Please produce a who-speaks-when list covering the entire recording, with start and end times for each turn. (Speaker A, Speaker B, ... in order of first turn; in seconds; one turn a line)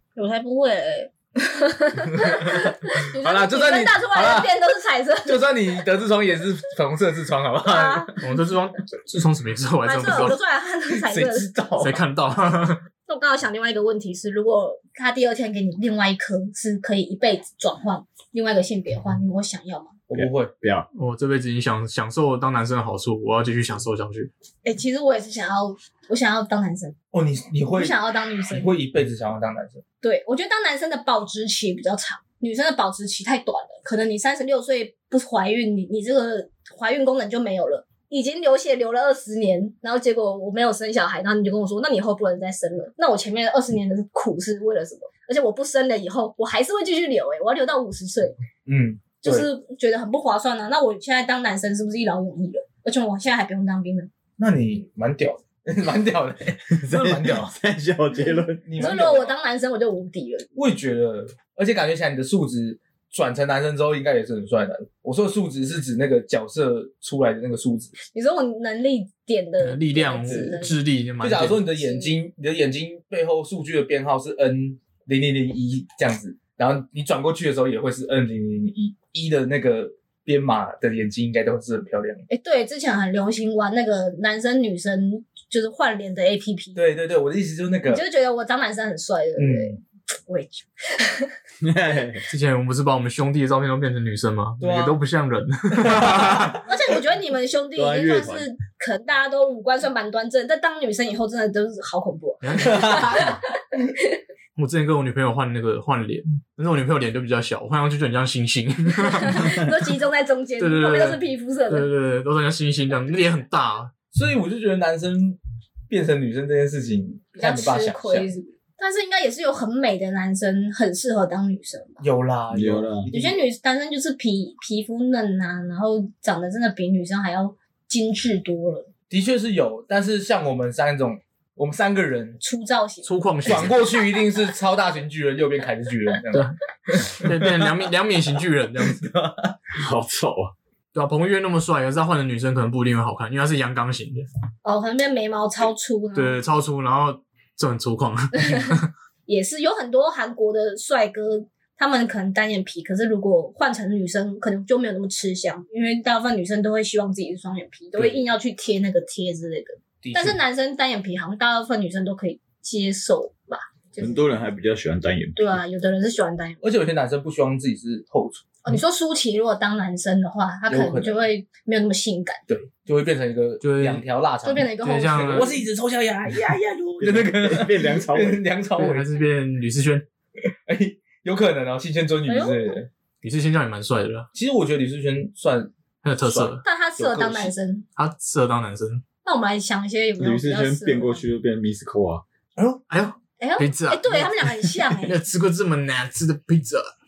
Speaker A: 0.1-5.6
Speaker B: 2.1-4.5
Speaker B: 5.2-8.2
Speaker A: 7.6-8.1
Speaker C: 8.2-10.4
Speaker A: 9.8-11.5
Speaker B: 10.0-10.3
Speaker B: 10.9-12.0
Speaker C: 11.8-12.8
Speaker A: 13.1-20.0
Speaker B: 20.1-20.5
Speaker D: 20.1-20.9
Speaker C: 20.9-24.3
Speaker A: 24.6-26.9
Speaker B: 27.1-28.0
Speaker A: 27.7-28.7
Speaker B: 28.5-29.8
Speaker A: 30.0-48.4
Speaker B: 48.6-49.5
Speaker A: 49.2-54.1
Speaker B: 54.4-57.5
Speaker D: 56.7-58.7
Speaker B: 58.6-59.3
Speaker A: 58.8-60.5
Speaker B: 60.5-67.9
Speaker A: 68.0-70.8
Speaker C: 69.6-71.6
Speaker B: 71.2-82.2
Speaker A: 71.7-72.2
Speaker A: 82.3-86.8
Speaker B: 86.7-88.0
Speaker A: 87.9-89.7
Speaker B: 89.4-89.8
Speaker A: 90.3-91.3
Speaker D: 91.6-92.2
Speaker C: 92.3-96.6
Speaker B: 94.6-95.0
Speaker A: 96.7-103.4
Speaker D: 97.7-98.5
Speaker C: 102.4-103.3
Speaker B: 102.7-103.2
Speaker C: 104.5-109.5
Speaker A: 109.0-111.9
Speaker C: 110.6-113.9
Speaker B: 114.1-115.4
Speaker B: 115.9-118.3
Speaker A: 117.3-122.0
Speaker B: 122.0-123.4
Speaker D: 122.5-123.1
Speaker A: 123.1-128.9
Speaker B: 129.1-132.4
Speaker A: 132.4-133.7
Speaker C: 133.0-133.8
Speaker B: 133.4-137.7
Speaker C: 136.3-139.0
Speaker B: 138.8-139.5
Speaker D: 139.7-140.5
Speaker C: 140.9-144.2
Speaker A: 144.6-146.4
Speaker C: 146.1-148.8
Speaker A: 148.3-164.2
Speaker B: 160.0-160.4
Speaker D: 164.0-165.6
Speaker A: 165.4-166.6
Speaker B: 166.6-168.5
Speaker A: 168.6-172.4
Speaker B: 170.7-171.2
Speaker B: 172.5-179.1
Speaker C: 173.6-174.0
Speaker A: 174.4-175.6
Speaker C: 174.8-175.5
Speaker D: 177.0-178.4
Speaker C: 178.8-180.0
Speaker B: 180.7-182.9
Speaker A: 182.3-182.8
Speaker C: 183.2-184.3
Speaker B: 184.3-187.5
Speaker C: 186.0-186.6
Speaker A: 186.6-187.8
Speaker C: 188.0-189.0
Speaker A: 189.2-191.2
Speaker D: 190.2-192.2
Speaker B: 192.6-192.8
Speaker C: 192.9-196.9
Speaker A: 193.4-195.2